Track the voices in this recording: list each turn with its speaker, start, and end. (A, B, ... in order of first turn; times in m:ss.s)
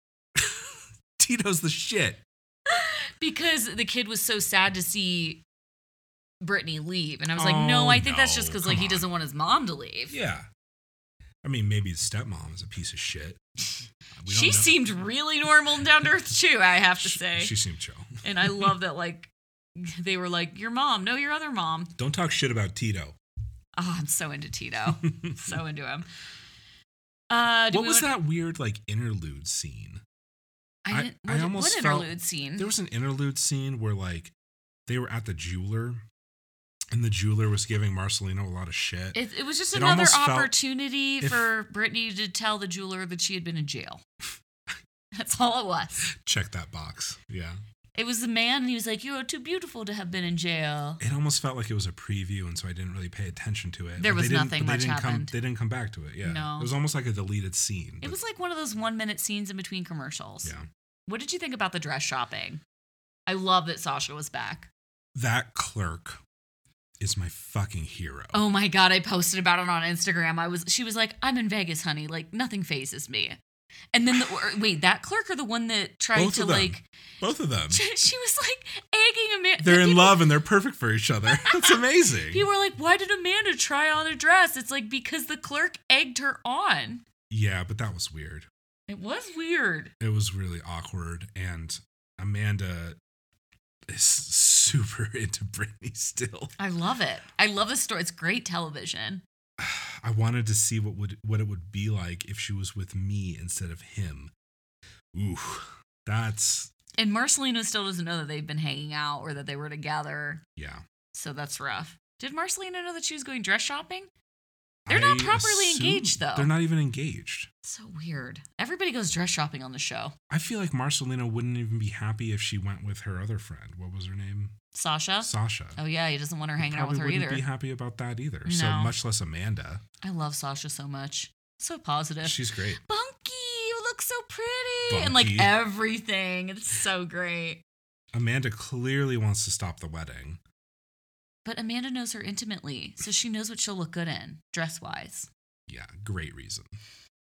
0:00.3-0:02.2 A
0:02.7-0:05.4 B
0:06.4-0:10.1 B
0:07.4-0:09.0 A
0:10.1-0:10.5 A
0:11.4-0:13.4 A
0:14.2-0:14.8 A
0:14.3-0:17.5 B
0:17.0-0:18.7 A
0:18.2-0:21.9 B
0:22.0-0:23.2 A
0:23.8-0:26.1 B
0:25.0-0:25.6 A
0:27.3-0:28.1 B
0:27.7-0:30.0 A
0:30.8-0:32.7 B
0:30.9-0:34.3 A
0:34.9-0:36.0 A
0:36.9-0:39.2 A
0:39.1-0:44.0 B
0:39.7-0:40.5 A
0:41.2-0:41.5 A
0:45.1-0:46.0 B
0:46.0-0:47.6 A
0:47.9-0:51.0 B
0:51.0-0:58.2 A
0:54.0-0:55.3 B
0:56.2-0:56.7 B
0:58.0-1:00.5 B
1:01.1-1:02.6 B
1:03.3-1:04.7 B
1:05.1-1:06.2 A
1:07.0-1:08.4 A
1:08.3-1:13.4 B
1:13.9-1:16.8 B
1:16.2-1:17.8 A
1:17.7-1:20.2 B
1:19.6-1:22.4 A
1:21.3-1:27.0 B
1:27.3-1:28.5 A
1:28.9-1:29.9 B
1:30.0-1:33.0 A
1:33.9-1:36.5 A
1:36.6-1:39.2 B
1:39.6-1:44.3 A
1:45.1-1:46.7 A
1:47.0-1:50.4 B
1:50.6-1:50.8 A
1:51.1-1:54.1 B
1:54.8-1:57.5 A
1:54.9-1:56.5 B
1:57.6-2:00.1 B
2:00.3-2:04.5 A
2:04.7-2:07.4 B
2:05.2-2:05.8 A
2:06.6-2:09.8 A
2:08.4-2:08.9 B
2:10.0-2:17.6 B
2:12.2-2:12.8 A
2:14.9-2:15.5 A
2:18.1-2:20.4 A
2:21.4-2:25.3 B
2:25.7-2:26.7 A